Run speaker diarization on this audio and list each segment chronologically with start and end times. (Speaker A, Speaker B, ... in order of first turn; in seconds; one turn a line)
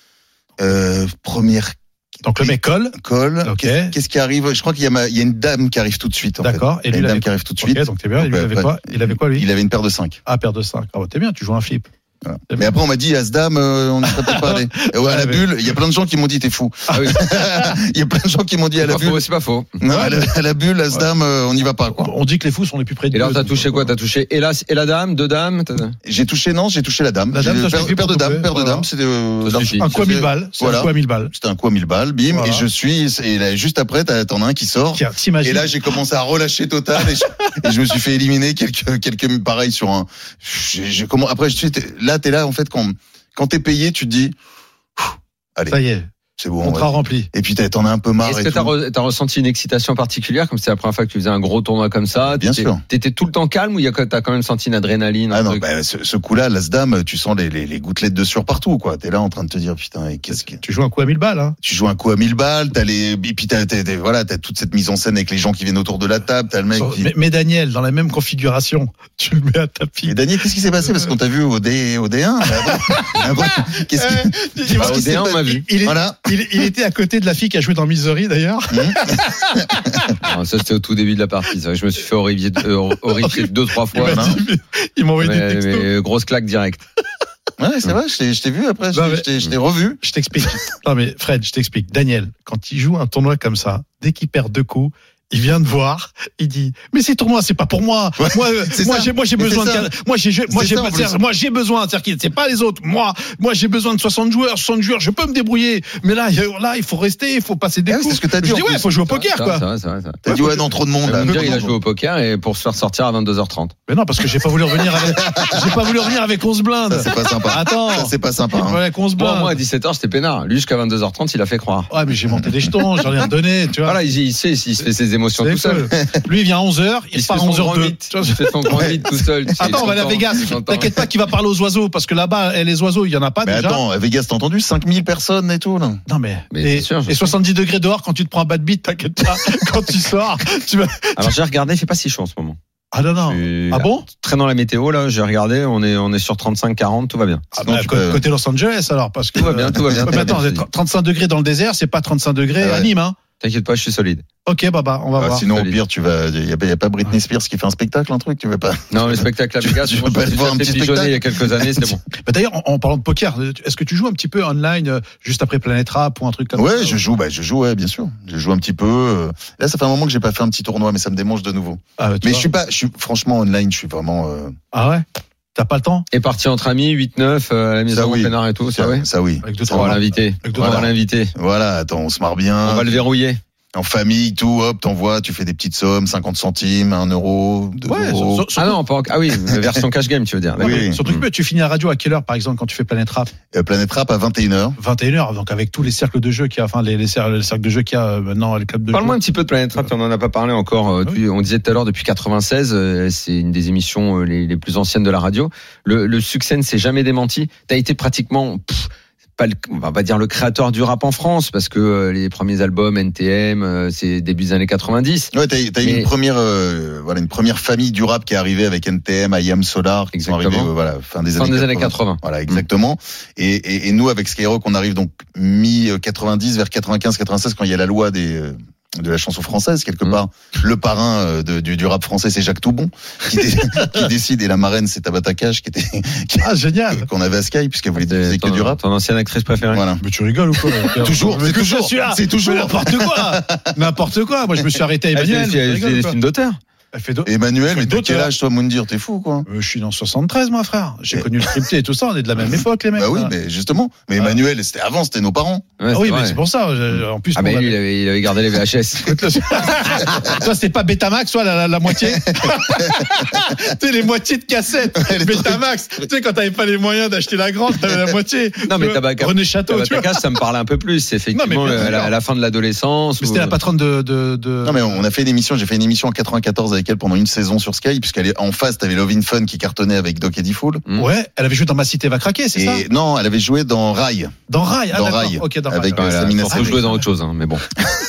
Speaker A: 0.6-1.8
Speaker B: 2.2-3.9
Speaker A: 2.4-10.2
Speaker B: 6.4-9.4
Speaker B: 10.3-11.9
Speaker A: 12.2-19.2
Speaker B: 14.1-15.4
Speaker C: 16.9-17.2
Speaker B: 16.9-17.8
Speaker C: 18.8-19.8
Speaker A: 19.8-22.1
Speaker B: 19.9-20.4
Speaker B: 22.0-23.9
Speaker C: 23.1-26.0
Speaker A: 26.0-44.4
Speaker B: 27.3-28.9
Speaker C: 29.4-29.9
Speaker B: 29.8-31.3
Speaker B: 32.3-32.6
Speaker B: 34.9-35.8
Speaker A: 45.0-45.8
Speaker B: 45.7-46.1
Speaker A: 46.4-48.7
Speaker B: 46.6-47.3
Speaker C: 48.2-55.6
Speaker A: 52.2-52.8
Speaker A: 55.3-60.6
Speaker B: 60.4-61.6
Speaker A: 61.6-67.1
Speaker B: 66.8-70.2
Speaker A: 70.0-76.7
Speaker B: 70.8-71.1
Speaker B: 72.5-80.2
Speaker C: 74.8-75.7
Speaker A: 78.7-80.0
Speaker C: 80.2-84.3
Speaker B: 83.2-85.9
Speaker A: 84.0-84.4
Speaker C: 85.2-86.8
Speaker A: 87.6-90.6
Speaker B: 88.9-89.3
Speaker B: 90.0-109.6
Speaker A: 98.2-99.9
Speaker A: 100.5-101.2
Speaker A: 107.9-108.9
Speaker C: 109.1-110.4
Speaker A: 110.2-111.7
Speaker B: 110.3-110.7
Speaker C: 111.0-113.8
Speaker B: 111.3-111.7
Speaker B: 113.9-119.6
Speaker A: 114.9-115.9
Speaker A: 116.9-118.8
Speaker C: 119.2-121.9
Speaker B: 121.9-124.0
Speaker C: 123.8-125.9
Speaker B: 125.4-129.0
Speaker C: 127.1-130.9
Speaker B: 129.6-133.8
Speaker A: 129.6-130.0
Speaker A: 133.4-136.0
Speaker B: 136.1-141.3
Speaker C: 136.5-137.3
Speaker C: 141.2-142.6
Speaker B: 142.9-144.1
Speaker C: 143.3-147.4
Speaker B: 147.5-153.2
Speaker A: 147.6-148.3
Speaker C: 149.4-150.7
Speaker A: 149.4-150.3
Speaker A: 152.6-152.9
Speaker C: 153.4-154.2
Speaker B: 154.5-155.5
Speaker A: 155.2-161.9
Speaker C: 155.5-155.8
Speaker C: 158.9-162.0
Speaker B: 162.2-167.0
Speaker A: 166.6-174.6
Speaker B: 172.0-172.5
Speaker B: 174.7-176.1
Speaker C: 176.1-179.1
Speaker A: 177.9-180.0
Speaker B: 179.4-180.9
Speaker C: 179.7-181.3
Speaker A: 180.6-183.1
Speaker C: 182.6-183.4
Speaker A: 183.8-188.5
Speaker B: 187.8-188.8
Speaker C: 188.6-191.2
Speaker B: 190.6-193.3
Speaker A: 190.6-191.2
Speaker A: 193.5-194.8
Speaker B: 194.8-199.2
Speaker C: 198.9-216.1
Speaker A: 215.3-238.8
Speaker C: 220.1-220.7
Speaker C: 221.3-222.6
Speaker B: 233.6-234.1
Speaker B: 236.4-237.1
Speaker C: 238.0-239.8
Speaker A: 239.7-240.0
Speaker B: 240.0-246.2
Speaker A: 240.9-243.7
Speaker C: 245.1-246.6
Speaker B: 246.9-248.3
Speaker A: 247.2-249.5
Speaker B: 249.5-253.3
Speaker A: 251.1-251.6
Speaker A: 252.4-255.7
Speaker C: 255.8-256.4
Speaker B: 255.9-257.8
Speaker C: 257.4-259.2
Speaker B: 259.0-270.4
Speaker A: 261.9-263.3
Speaker A: 265.0-265.6
Speaker C: 268.7-273.6
Speaker B: 271.3-272.1
Speaker B: 273.2-275.0
Speaker A: 274.6-280.8
Speaker B: 280.9-282.9
Speaker A: 282.6-284.4
Speaker B: 284.5-287.0
Speaker A: 284.9-286.8
Speaker C: 285.9-287.6